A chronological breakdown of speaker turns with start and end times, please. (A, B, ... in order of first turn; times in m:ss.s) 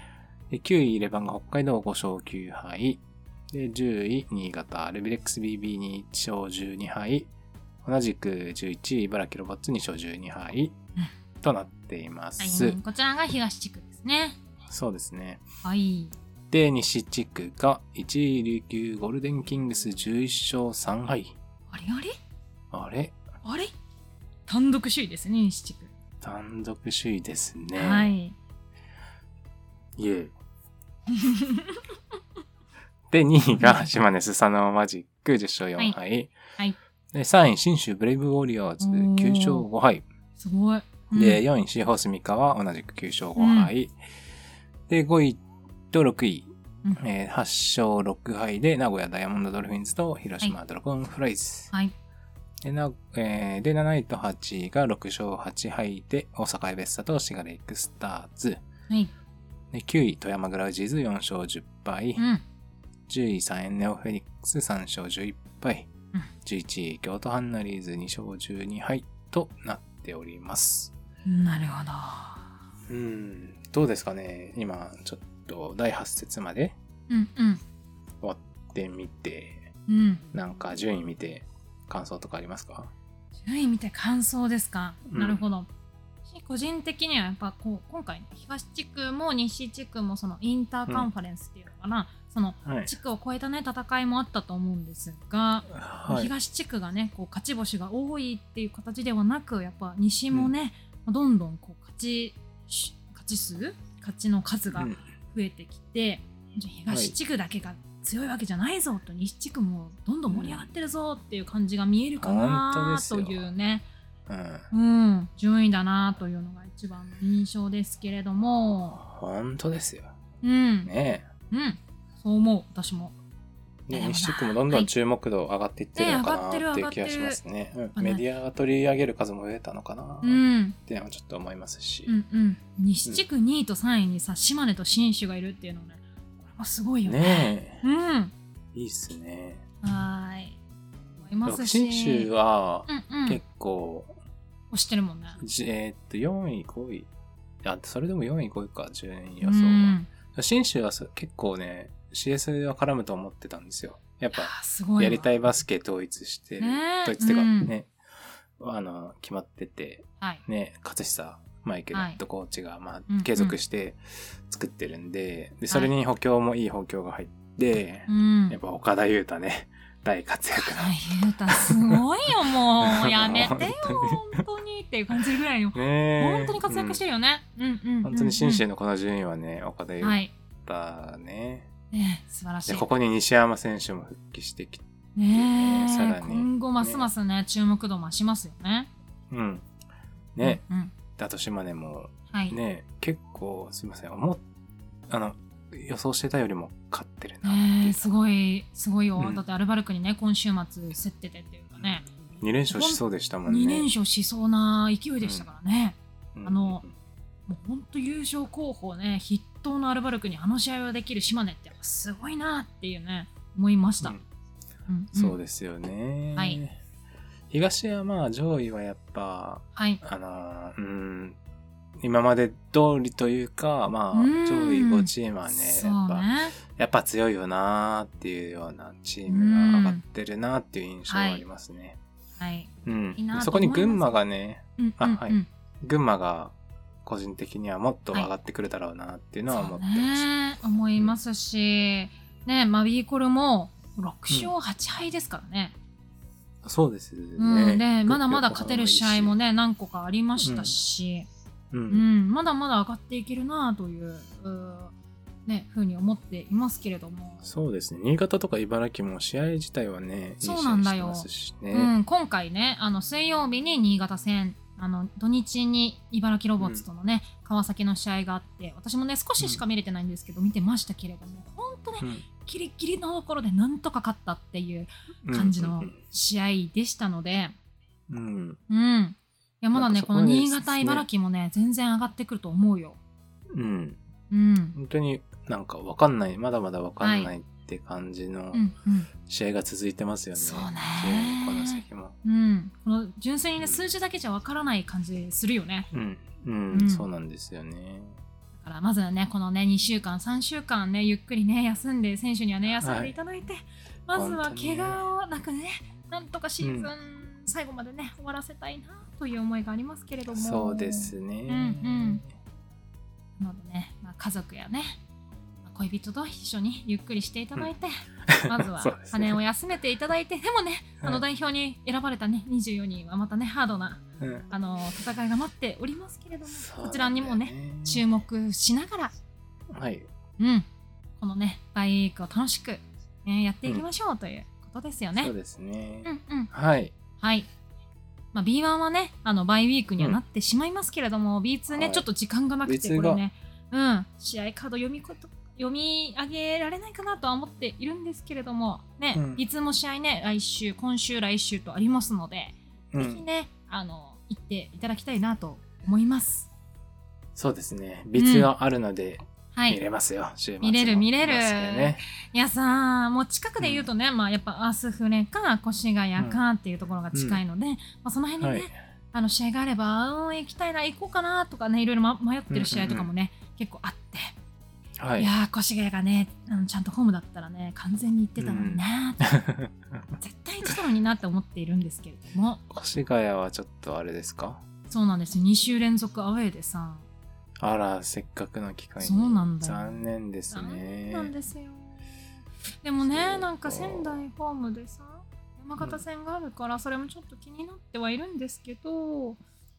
0:00.5-0:07.3 A
0:07.8-0:10.8 A
0:11.4-0:12.8 A
0:12.4-0:14.4 B
0:14.7-0:15.4 A
0:15.6-0:16.1 B
0:16.5-0:21.4 A
0:21.7-0:22.2 B
0:22.7-0:23.2 A
0:23.4-0:23.7 B
0:24.5-0:25.9 B
0:26.2-0:28.1 A
0:27.8-0:28.4 B
0:30.0-0:30.3 A
0:31.1-0:31.8 B
0:33.1-0:36.3 A
0:33.6-0:33.9 B
0:37.1-0:40.0 A
0:38.8-0:39.6 B
0:40.4-0:41.4 B
0:41.1-0:43.9 A
0:43.4-0:43.7 B
0:44.9-0:51.7 A
0:52.6-0:58.6 A
0:59.7-1:02.2 A
1:02.2-1:02.4 B
1:03.1-1:05.9 A
1:06.4-1:10.9 A
1:11.2-1:12.4 B
1:12.9-1:16.8 A
1:17.1-1:17.6 B
1:18.2-1:19.7 A
1:19.9-1:20.2 B
1:20.3-1:22.9 A
1:23.4-1:25.7 B
1:25.1-1:25.4 A
1:26.3-1:53.8 B
1:32.6-1:32.9 A
1:35.7-1:36.3 A
1:44.8-1:45.0 A
1:46.9-1:47.2 A
1:50.3-1:50.7 A
1:52.2-1:53.5 A
1:54.3-1:54.7 A
1:54.7-1:59.0 B
1:59.0-2:00.1 A
2:00.4-2:00.9 B
2:00.8-2:01.3 A
2:01.5-2:03.2 B
2:03.9-2:12.1 A
2:03.9-2:04.9 B
2:06.0-2:07.4 B
2:08.0-2:08.2 B
2:10.2-2:10.8 B
2:12.1-2:18.3 B
2:17.0-2:17.8 A
2:18.7-2:19.6 A
2:19.8-2:20.6 B
2:21.2-2:22.3 B
2:21.4-2:24.2 A
2:22.9-2:23.4 B
2:24.7-2:25.4 B
2:25.4-2:27.1 A
2:27.6-2:37.9 A
2:29.4-2:30.1 B
2:34.3-2:35.3 B
2:36.6-2:37.7 B
2:38.6-2:52.0 A
2:41.9-2:42.2 B
2:43.1-2:43.6 B
2:48.1-2:48.6 B
2:50.7-2:58.6 B
2:52.8-2:54.3 A
2:55.7-2:57.0 A
2:58.0-3:01.7 A
3:00.0-3:00.3 B
3:01.9-3:02.8 B
3:02.7-3:07.1 A
3:05.2-3:08.9 B
3:09.3-3:09.7 A
3:10.4-3:10.6 A
3:10.4-3:10.9 B
3:11.2-3:14.4 A
3:15.1-3:18.1 A
3:17.4-3:22.1 B
3:19.2-3:19.4 A
3:22.4-3:23.9 A
3:22.7-3:26.8 B
3:25.2-3:25.5 A
3:26.4-3:26.9 A
3:27.5-3:34.2 B
3:34.9-3:35.4 B
3:35.1-3:36.8 A
3:37.5-3:41.4 A
3:39.8-3:40.0 B
3:42.0-3:52.0 A
3:44.1-3:46.6 B
3:49.3-3:50.0 B
3:51.1-3:51.4 B
3:52.4-3:54.2 B
3:52.8-4:00.3 A
3:54.8-3:55.5 B
3:59.5-4:05.8 B
4:06.6-4:09.4 A
4:07.4-4:11.3 B
4:10.4-4:10.7 A
4:11.7-4:12.1 A
4:11.9-4:14.9 B
4:15.5-4:17.4 B
4:17.4-4:21.9 A
4:20.4-4:37.5 B
4:35.2-4:36.0 A
4:38.1-4:38.6 A
4:38.7-4:43.0 B
4:39.7-4:41.1 A
4:43.5-4:44.0 A
4:44.3-4:44.8 B
4:44.8-4:48.6 A
4:47.0-4:47.3 B
4:48.5-4:49.1 B
4:49.2-4:52.2 A
4:50.4-4:55.9 B
4:55.9-4:58.2 A
4:56.7-4:57.1 B
4:58.6-5:12.2 B
5:02.8-5:03.2 A
5:04.1-5:05.0 A
5:06.6-5:06.9 A
5:10.3-5:12.3 A
5:13.4-5:15.0 B
5:15.6-5:29.1 B
5:18.3-5:19.4 A
5:24.2-5:24.5 A
5:26.5-5:28.1 A
5:29.7-5:30.1 A
5:30.4-5:30.7 B
5:31.2-5:35.3 B
5:35.2-5:36.9 A
5:36.0-5:36.5 B
5:37.2-5:37.5 B
5:38.3-5:56.5 B
5:41.7-5:42.1 A
5:42.6-5:43.2 A
5:49.1-5:49.4 A
5:52.9-5:53.2 A
5:57.4-6:02.0 A
5:58.2-5:58.5 B
5:59.6-5:59.8 B
6:00.6-6:14.3 B
6:03.6-6:03.9 A
6:07.1-6:07.4 A
6:08.4-6:08.7 A
6:12.5-6:13.1 A
6:15.0-6:15.3 A
6:15.2-6:19.4 B
6:18.4-6:20.1 A
6:20.2-6:22.6 B
6:22.7-6:24.6 A
6:24.9-6:27.0 B
6:27.6-6:31.3 A
6:29.0-6:30.0 B
6:30.5-6:32.0 B
6:32.8-6:39.4 B
6:33.0-6:34.2 A